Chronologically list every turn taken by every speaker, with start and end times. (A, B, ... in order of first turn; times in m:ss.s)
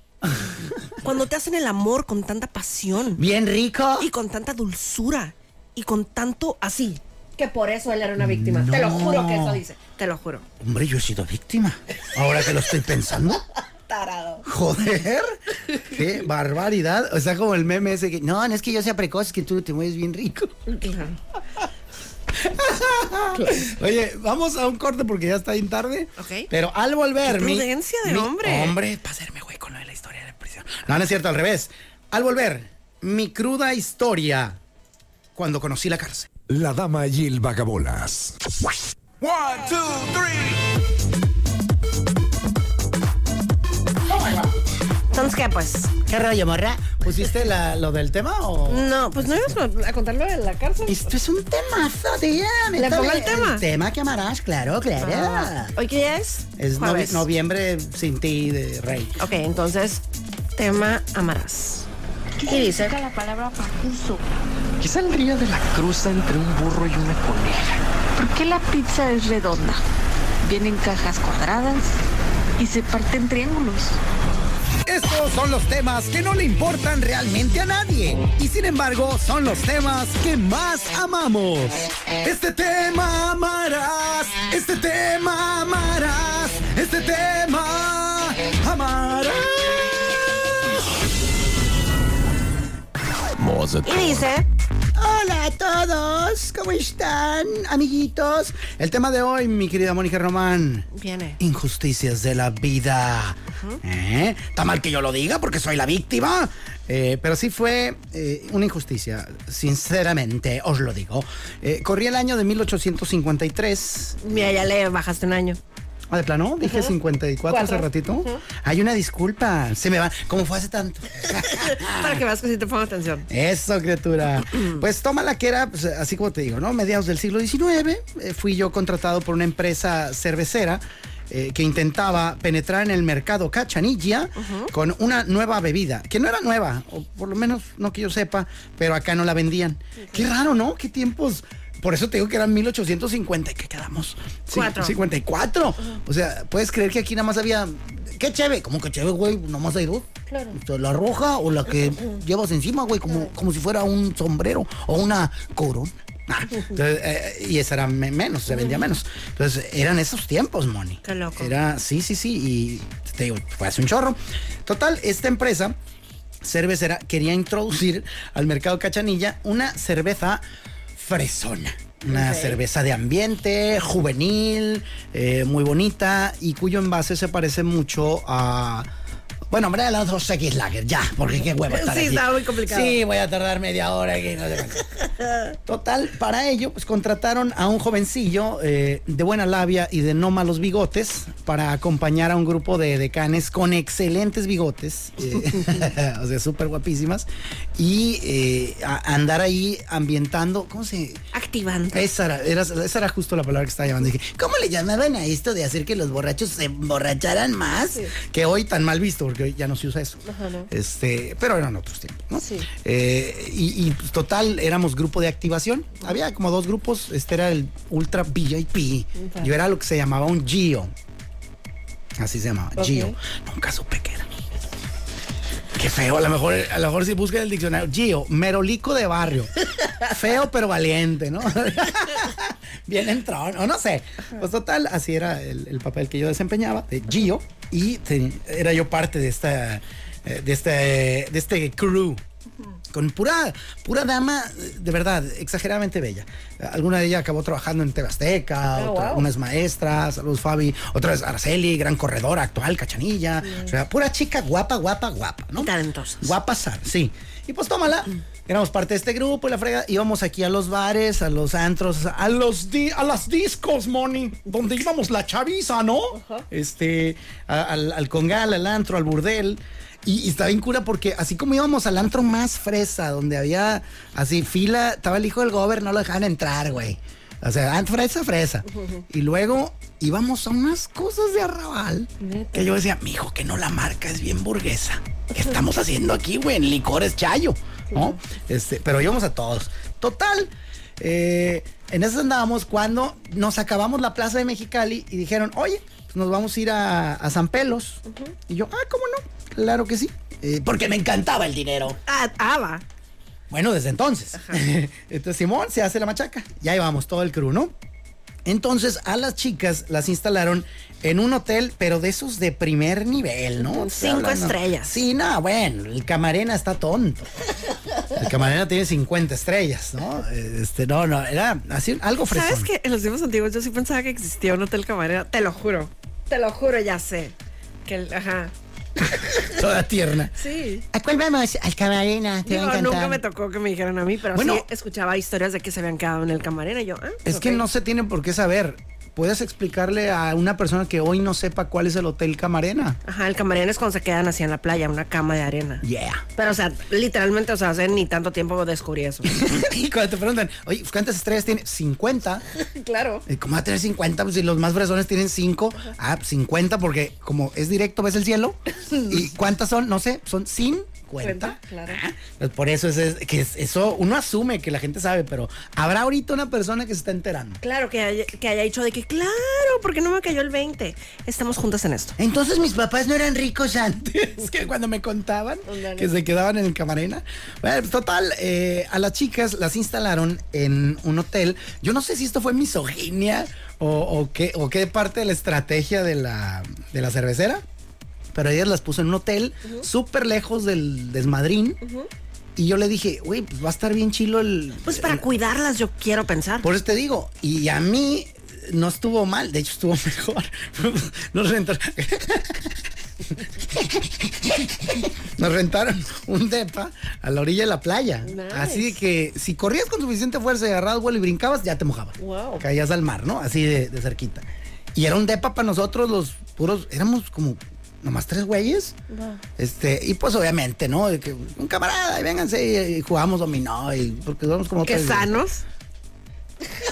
0:00.2-0:00.9 A
0:01.0-0:03.2 B
0:03.2-0:04.1 A
0:04.0-0:10.5 B
0:08.2-0:09.6 A
0:10.6-0:13.4 A
0:13.9-0:14.5 B
0:14.4-0:20.6 A
0:15.7-0:16.0 B
0:20.7-0:21.2 B
0:22.3-0:34.6 A
0:23.3-0:23.7 B
0:26.2-0:26.5 B
0:27.2-0:28.8 B
0:35.4-0:36.3 A
0:36.5-0:38.5 C
0:39.2-0:40.5 C
0:39.3-0:40.2 A
0:44.0-0:44.6 A
0:45.1-0:46.0 B
0:46.0-0:49.6 A
0:48.7-0:51.1 B
0:50.9-0:55.7 A
0:52.8-0:53.6 B
0:55.0-0:57.3 B
0:56.6-0:59.2 A
0:59.2-1:00.0 B
1:00.6-1:01.9 B
1:02.4-1:04.2 D
1:02.5-1:03.0 B
1:04.8-1:07.8 E
1:08.2-1:09.8 D
1:10.4-1:12.0 D
1:12.6-1:14.0 D
1:14.9-1:30.8 A
1:33.8-1:34.5 B
1:35.0-1:40.9 A
1:40.9-1:41.4 B
1:41.4-1:54.6 A
1:43.5-1:43.8 B
1:54.2-1:55.6 B
1:56.1-2:02.2 A
1:56.6-1:56.9 B
1:57.5-1:58.4 B
2:01.3-2:03.3 B
2:03.3-2:45.8 A
2:14.4-2:14.7 B
2:20.0-2:20.3 B
2:24.5-2:25.0 B
2:30.3-2:30.6 B
2:38.5-2:38.8 B
2:41.0-2:41.6 B
2:46.4-2:50.4 A
2:51.0-2:58.9 A
2:52.1-2:52.6 B
2:59.5-3:04.8 A
3:01.4-3:03.0 B
3:05.7-3:21.2 A
3:21.3-3:22.1 B
3:21.9-3:40.9 A
3:27.8-3:28.1 B
3:30.2-3:30.7 B
3:32.4-3:32.7 B
3:39.2-3:39.5 B
3:42.2-3:44.3 A
3:42.8-3:43.2 B
3:45.8-4:02.2 A
3:49.8-3:50.1 B
4:02.9-5:02.0 A
4:08.7-4:09.3 B
4:13.4-4:13.8 B
4:15.6-4:16.4 B
4:26.1-4:26.5 B
4:42.2-4:42.8 B
4:47.9-4:48.2 B
4:58.1-4:58.4 B
5:02.0-5:02.8 B
5:03.5-5:07.8 A
5:08.4-5:17.3 A
5:13.6-5:15.0 B
5:18.1-5:22.7 A
5:22.3-5:27.4 B
5:27.9-5:28.5 B
5:29.3-5:30.4 A
5:30.4-5:30.9 B
5:30.9-5:33.2 A
5:32.4-5:37.7 B
5:34.3-5:34.7 A
5:37.2-5:43.0 A
5:43.0-5:45.8 B
5:45.8-5:46.2 A
5:46.4-5:49.3 B
5:49.3-5:52.4 A
5:52.5-5:53.3 B
5:53.3-6:07.6 A
5:58.7-5:59.3 B
6:01.2-6:02.0 B
6:07.6-6:12.2 B
6:12.2-6:27.6 A
6:15.7-6:16.1 B
6:28.3-6:31.8 A
6:31.8-6:32.1 B
6:32.6-6:35.2 A
6:34.8-6:36.7 B
6:36.6-6:59.0 A
6:48.2-6:49.0 B
6:52.2-6:52.6 B
6:59.1-6:59.4 B
6:59.6-7:05.4 A
7:04.8-7:05.6 B